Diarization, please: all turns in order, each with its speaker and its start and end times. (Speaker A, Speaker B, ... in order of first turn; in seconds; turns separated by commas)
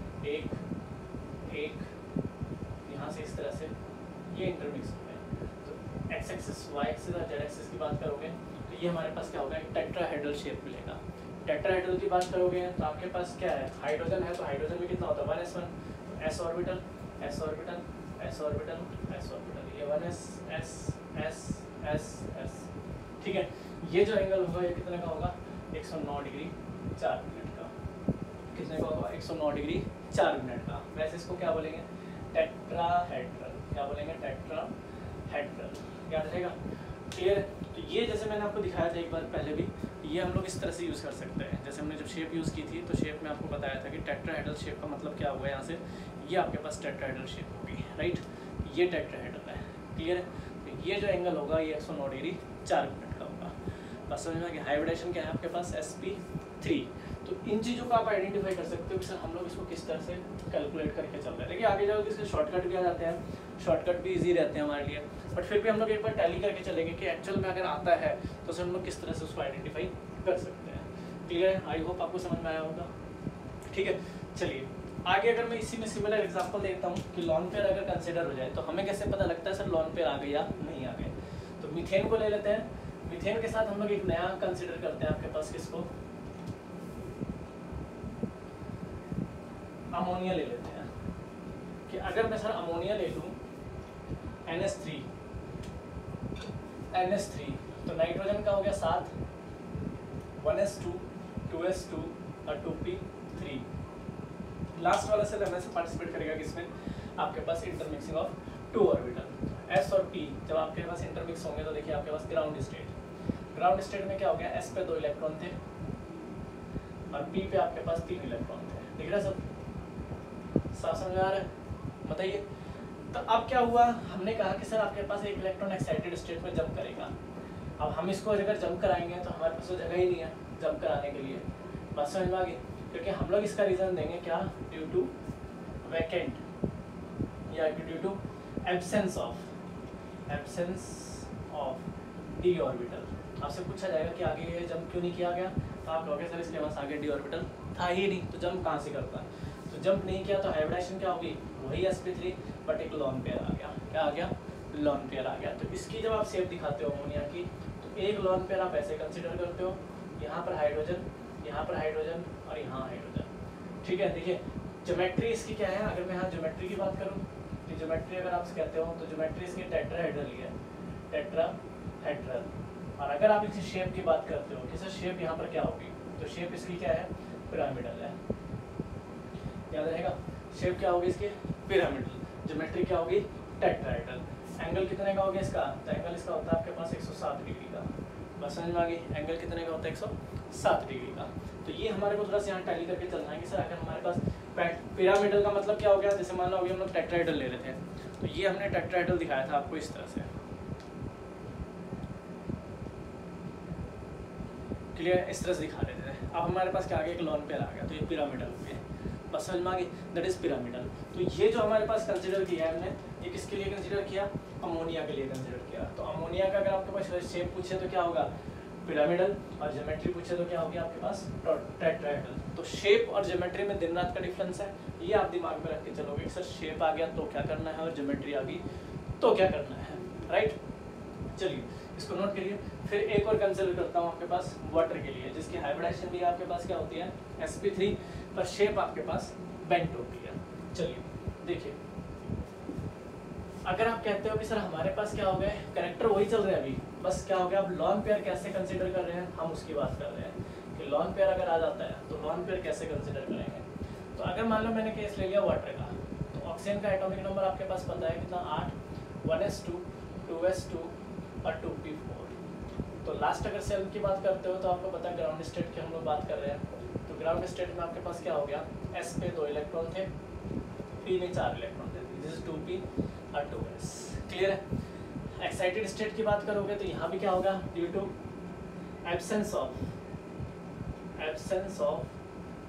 Speaker A: 0.2-0.6, Speaker A: 1.4-1.9, Speaker A: 2.9-3.8, Speaker A: 4.3-22.7, Speaker A: 23.2-27.7, Speaker A: 28.5-34.8, Speaker A: 35.3-36.6, Speaker A: 37.1-53.5, Speaker A: 54.1-72.9, Speaker A: 73.7-85.9, Speaker A: 89.9-90.9, Speaker A: 91.9-93.4, Speaker A: 94.5-95.1, Speaker A: 96.9-99.2, Speaker A: 100.4-103.7, Speaker A: 104.8-112.9, Speaker A: 113.5-115.6, Speaker A: 117.1-119.4, Speaker A: 120.7-121.5, Speaker A: 122.0-122.5, Speaker A: 123.1-127.1, Speaker A: 127.8-135.1, Speaker A: 135.8-136.4, Speaker A: 137.5-139.5, Speaker A: 140.3-163.3, Speaker A: 163.8-170.5, Speaker A: 171.1-178.2, Speaker A: 179.7-200.3, Speaker A: 204.9-218.3, Speaker A: 218.8-228.6, Speaker A: 229.2-230.6, Speaker A: 231.3-241.8, Speaker A: 243.7-262.3, Speaker A: 263.0-270.1, Speaker A: 271.0-274.6, Speaker A: 275.4-278.1, Speaker A: 279.1-279.9, Speaker A: 281.2-282.1